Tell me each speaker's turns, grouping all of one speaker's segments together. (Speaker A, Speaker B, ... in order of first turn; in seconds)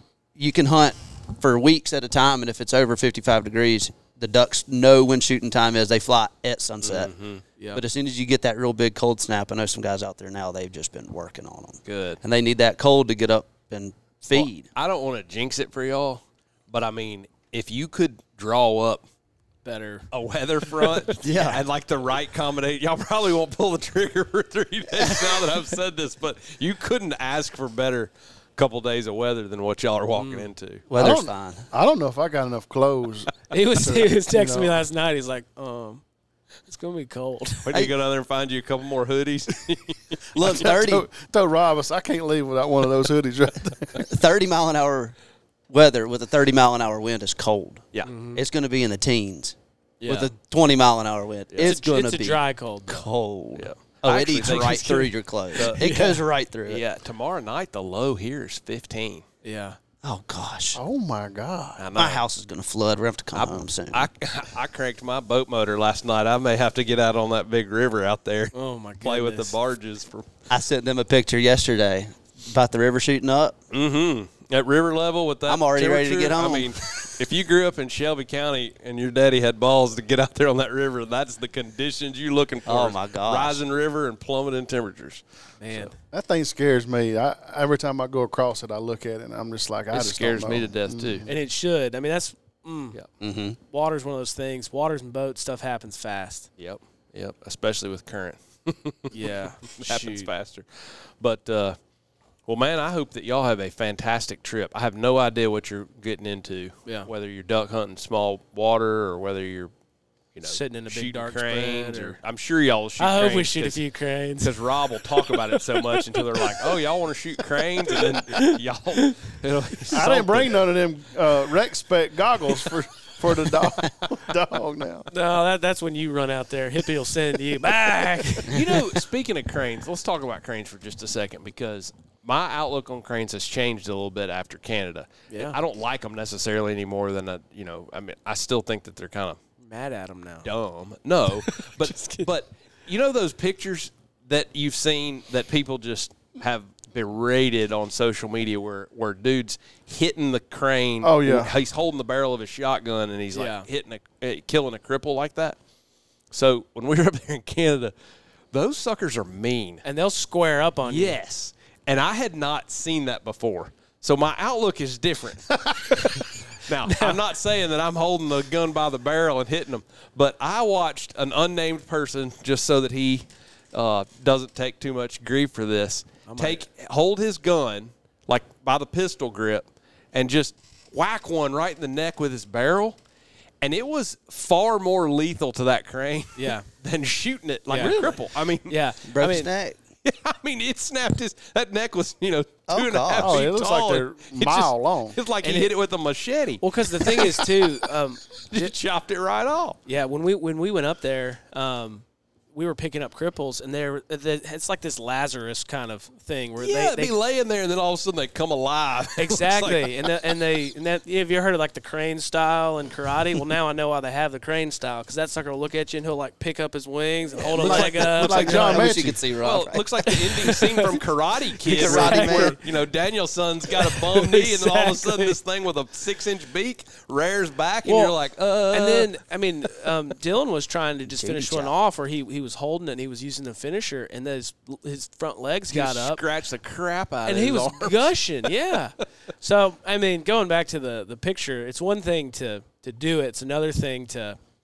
Speaker A: 0.4-7.1, 7.7-14.7, 21.2-21.6, 25.0-25.4, 30.9-31.7, 40.3-41.1, 44.0-45.1, 45.7-56.8, 60.0-60.8, 62.0-64.1, 70.5-73.6, 75.5-77.2, 82.7-83.6, 93.2-93.6, 189.1-189.8, 192.7-193.4, 217.6-219.9, 221.6-222.6, 231.1-231.7
Speaker B: 6.8-7.4, 11.9-12.2, 14.3-19.0, 20.1-30.9, 37.6-40.2, 50.0-50.3, 53.6-55.8, 56.7-59.2, 61.8-62.2, 63.3-70.3, 73.7-85.9, 89.9-91.3, 96.6-101.8, 102.5-109.7, 110.3-113.8, 114.4-120.7, 128.4-139.4, 140.4-155.6, 156.3-157.9, 158.5-159.8, 160.8-183.0, 183.6-188.8, 190.0-197.7, 198.4-199.8, 206.6-210.1, 217.6-229.1, 235.7-238.2
Speaker C: 7.6-7.8, 19.6-20.1, 30.1-30.5, 33.5-36.0, 36.7-37.7, 48.0-48.4, 51.6-53.1, 55.6-56.2, 59.4-59.8, 68.5-69.5, 85.6-86.0, 91.3-93.0, 93.7-96.5, 99.1-100.3, 110.4-112.2, 113.0-114.5, 115.1-116.6, 117.8-119.2, 125.1-128.8, 135.3-135.6, 139.6-140.5, 141.4-142.3, 153.3-153.7, 159.8-161.2, 166.8-167.2, 176.3-176.7, 186.4-186.7, 187.7-188.0, 188.7-189.5, 195.4-195.7, 196.6-198.6, 199.9-207.1, 209.2-218.9, 220.1-221.0, 221.7-222.6, 223.8-225.4, 227.8-228.2, 228.7-236.2, 237.3-244.4
Speaker D: 31.0-34.8, 40.4-44.0, 60.7-61.9, 86.1-91.3, 119.9-125.1, 151.0-151.5, 187.8-188.2, 193.2-195.2, 217.6-219.2